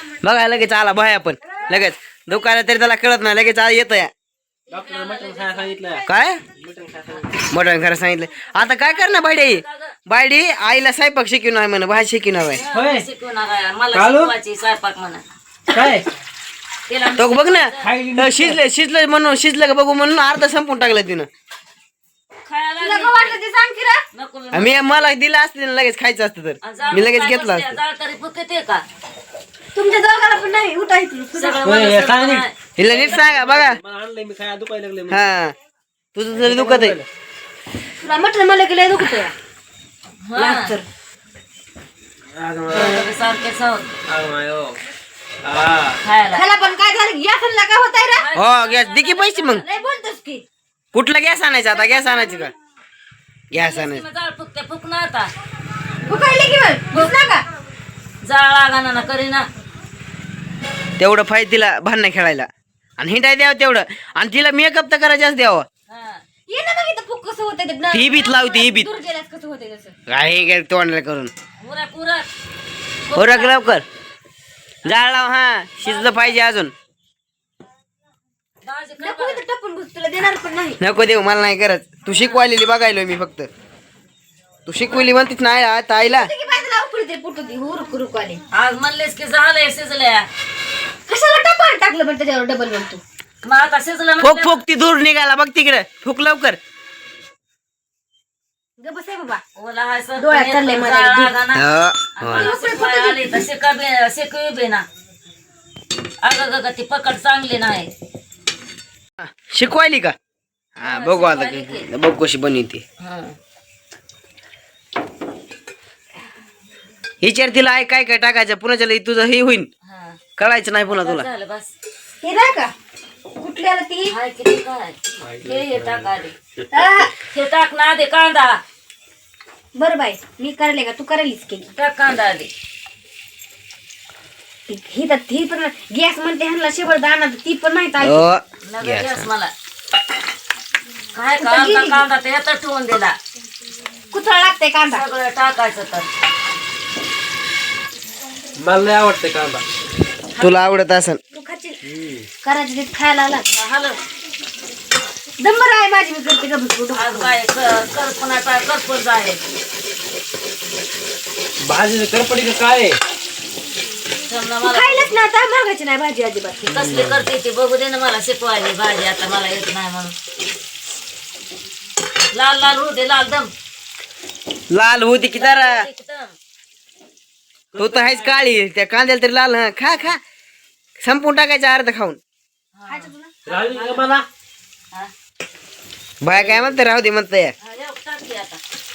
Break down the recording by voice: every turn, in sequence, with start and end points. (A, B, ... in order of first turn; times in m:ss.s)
0:00.2-0:04.1 A
0:04.7-0:06.0 B
0:04.7-0:05.7 C
0:06.1-0:06.4 A
0:06.6-0:07.3 B
0:07.5-0:12.6 A
0:09.0-0:09.9 C
0:12.5-0:15.2 C
0:12.7-0:13.0 B
0:13.9-0:14.3 B
0:15.7-0:16.0 B
0:16.9-0:17.9 C
0:17.2-0:21.3 A
0:17.8-0:18.6 B
0:22.4-0:23.4 C
0:22.8-0:24.0 D
0:24.1-0:25.1 C
0:24.5-0:27.8 A
0:26.6-0:28.8 C
0:29.7-0:31.6 D
0:31.3-0:33.2 C
0:31.6-0:35.2 B
0:32.8-0:33.8 A
0:35.1-0:35.5 A
0:36.1-0:37.0 A
0:36.3-0:37.1 B
0:38.0-0:39.3 D
0:40.2-0:40.7 C
0:40.4-0:40.8 D
0:42.3-0:42.9 B
0:42.7-0:43.9 C
0:44.1-0:44.8 B
0:45.4-0:46.0 B
0:46.0-0:46.4 C
0:46.3-0:48.2 D
0:48.1-0:49.6 C
0:48.3-0:49.6 A
0:49.6-0:50.4 D
0:50.9-0:52.5 A
0:51.7-0:52.5 D
0:53.5-0:54.0 A
0:53.5-0:55.3 C
0:56.0-0:57.4 D
0:58.2-0:59.5 C
1:01.0-1:05.6 A
1:05.9-1:06.2 C
1:06.5-1:09.9 D
1:07.9-1:08.9 A
1:10.1-1:11.3 A
1:11.6-1:12.3 C
1:13.1-1:13.6 C
1:13.1-1:13.8 A
1:14.8-1:16.7 A
1:15.8-1:16.2 C
1:18.6-1:19.4 C
1:19.0-1:20.8 D
1:20.8-1:23.5 A
1:22.1-1:22.4 C
1:24.6-1:26.3 A
1:24.8-1:25.1 C
1:26.0-1:28.4 D
1:28.5-1:30.3 C
1:31.1-1:33.0 D
1:33.4-1:34.6 C
1:34.2-1:36.6 A
1:38.8-1:39.4 D
1:39.6-1:41.6 C
1:40.2-1:41.3 D
1:41.5-1:42.5 A
1:42.1-1:44.8 C
1:42.3-1:43.2 D
1:46.2-1:47.9 C
1:49.2-1:50.1 A
1:50.8-1:52.8 A
1:50.8-1:51.9 C
1:53.0-1:53.4 C
1:57.2-1:59.7 A
1:59.8-2:00.2 C
2:00.4-2:01.2 A
2:00.9-2:01.7 C
2:02.2-2:02.7 D
2:03.4-2:04.1 D
2:04.1-2:06.4 C
2:05.2-2:06.7 B
2:06.7-2:07.1 D
2:07.2-2:08.6 C
2:09.7-2:11.7 D
2:11.7-2:12.5 C
2:14.7-2:18.3 D
2:18.0-2:19.2 A
2:18.6-2:19.5 C
2:21.1-2:23.2 C
2:21.4-2:22.0 D
2:24.1-2:25.0 D
2:24.9-2:26.1 C
2:28.6-2:29.6 B
2:30.3-2:30.6 C
2:30.4-2:31.2 A
2:31.3-2:31.8 D
2:31.8-2:32.3 B
2:32.4-2:33.4 D
2:33.5-2:34.0 C
2:35.4-2:37.3 D
2:36.9-2:39.4 C
2:41.6-2:43.0 B
2:44.2-2:45.2 C
2:44.6-2:46.6 D
2:46.6-2:50.1 C
2:46.7-2:47.2 A
2:52.3-2:53.5 C
2:54.7-2:55.8 A
2:55.3-2:56.3 C
2:57.7-2:58.4 B
2:57.8-3:00.2 A
3:01.0-3:02.2 A
3:02.7-3:04.0 C
3:02.9-3:03.4 D
3:03.4-3:04.2 B
3:06.2-3:07.5 A
3:06.4-3:06.7 C
3:07.6-3:08.6 C